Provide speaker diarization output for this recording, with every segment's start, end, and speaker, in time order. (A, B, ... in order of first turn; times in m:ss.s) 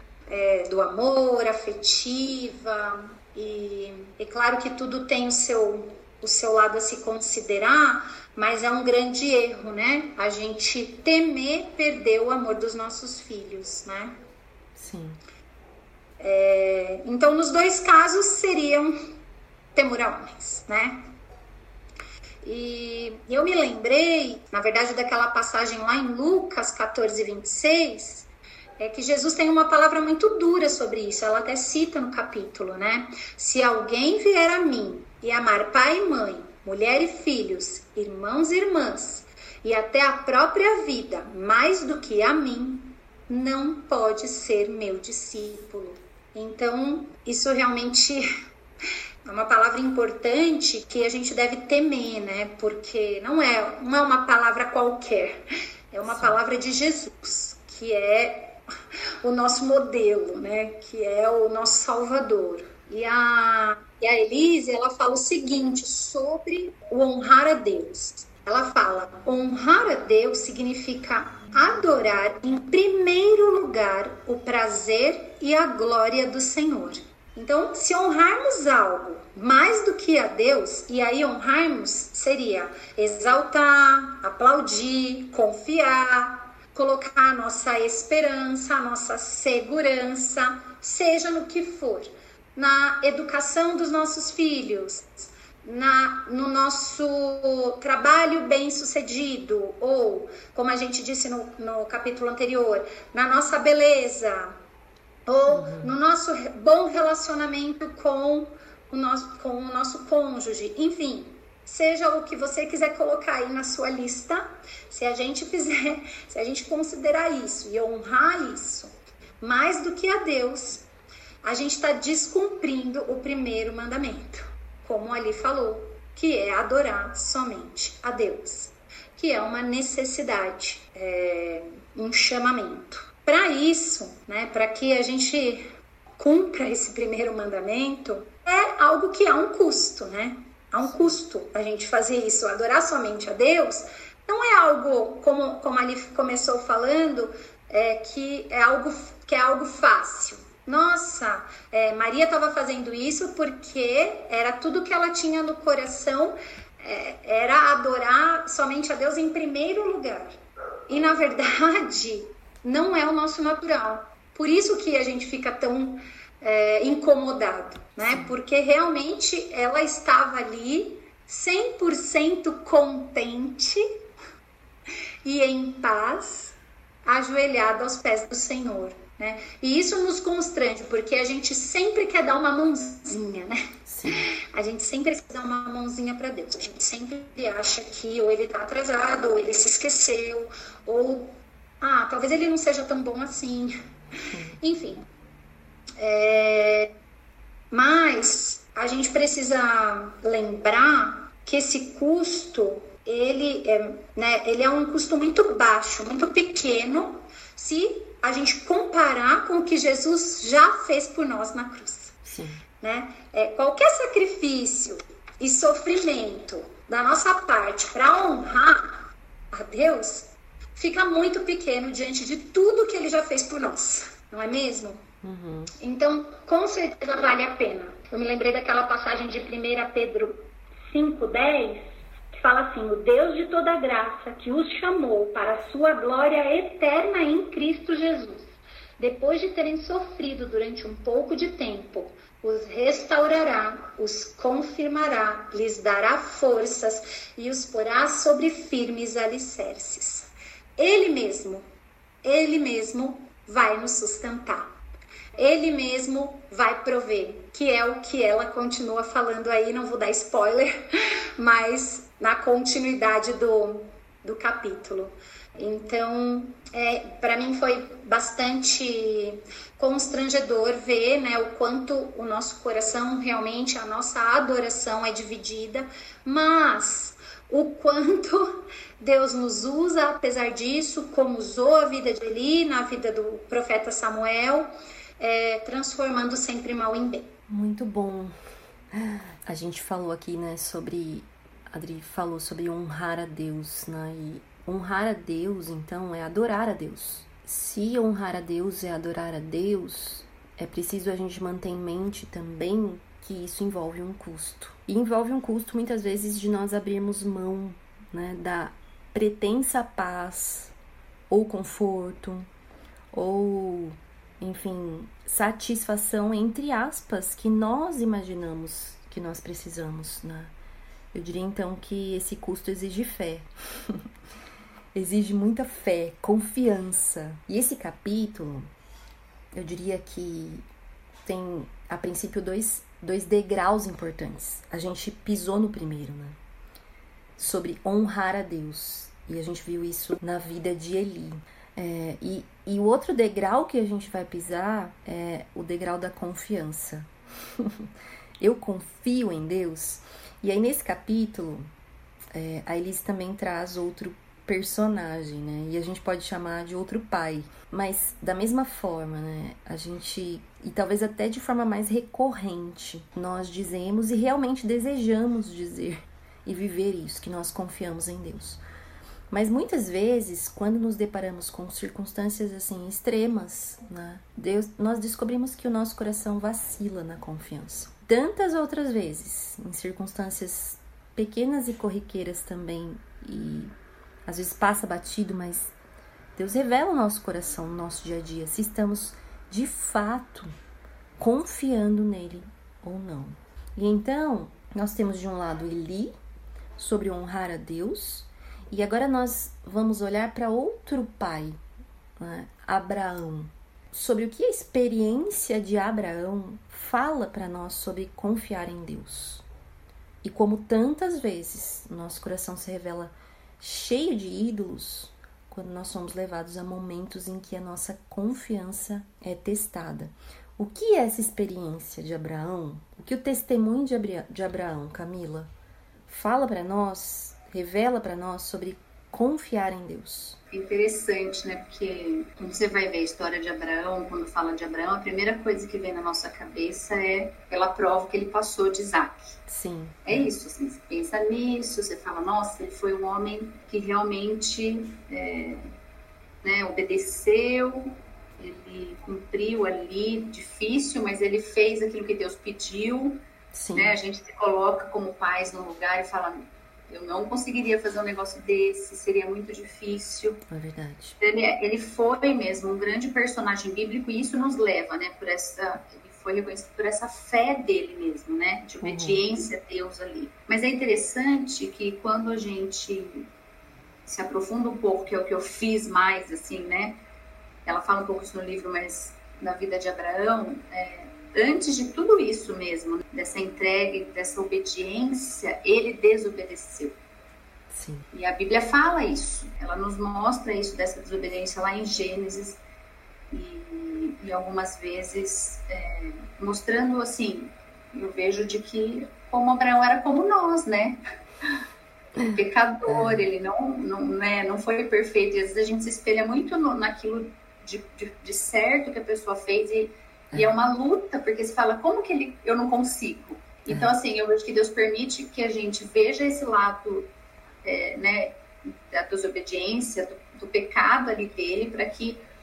0:00.3-0:14.2 A
0:14.7-0:15.2 B
0:16.2-0:18.9 A
0:19.7-0:21.1 A
0:22.4-0:28.3 A
0:28.8-0:48.3 A
0:49.2-0:58.6 A
0:56.0-0:56.4 B
0:59.2-1:44.6 A
1:45.3-2:00.9 A
1:45.5-1:45.9 B
2:01.4-2:15.6 A
2:16.2-2:40.4 A
2:40.9-2:53.8 A
2:48.0-2:48.3 B
2:55.2-3:13.7 A
3:03.8-3:04.3 B
3:14.3-3:14.6 B
3:14.6-3:15.0 A
3:16.0-3:16.9 A
3:17.7-3:32.2 A
3:32.2-3:32.6 B
3:32.8-3:45.0 A
3:45.2-3:45.7 B
3:45.8-3:51.9 A
3:52.4-4:11.6 A
4:12.2-4:14.7 A
4:15.4-4:20.8 A
4:21.4-4:44.7 A
4:45.2-4:47.3 A
4:47.5-4:48.3 B
4:48.9-5:10.7 B
5:11.3-5:12.5 B
5:13.1-5:20.5 B
5:21.1-5:24.0 B
5:24.9-5:28.7 B
5:29.5-5:30.6 B
5:31.2-5:36.4 B
5:37.4-5:47.8 B
5:48.4-5:51.7 B
5:52.3-6:08.6 B
6:09.3-6:23.7 B
6:24.2-6:25.7 B
6:26.4-6:30.5 B
6:31.2-6:36.1 B
6:36.8-6:41.6 B
6:42.2-6:49.4 B
6:50.2-7:05.5 B
7:06.1-7:10.4 B
7:10.5-7:19.4 C
7:19.5-7:20.3 B
7:20.0-7:25.7 C
7:26.4-7:33.2 C
7:33.5-7:34.0 B
7:33.7-7:40.4 C
7:40.5-7:41.2 B
7:41.2-7:53.3 C
7:48.8-7:49.2 B
7:54.0-7:57.0 C
7:57.6-8:07.0 C
8:07.7-8:08.1 B
8:08.1-8:12.6 C
8:13.3-8:21.0 C
8:22.3-8:37.1 C
8:22.9-8:23.2 B
8:37.6-8:42.2 C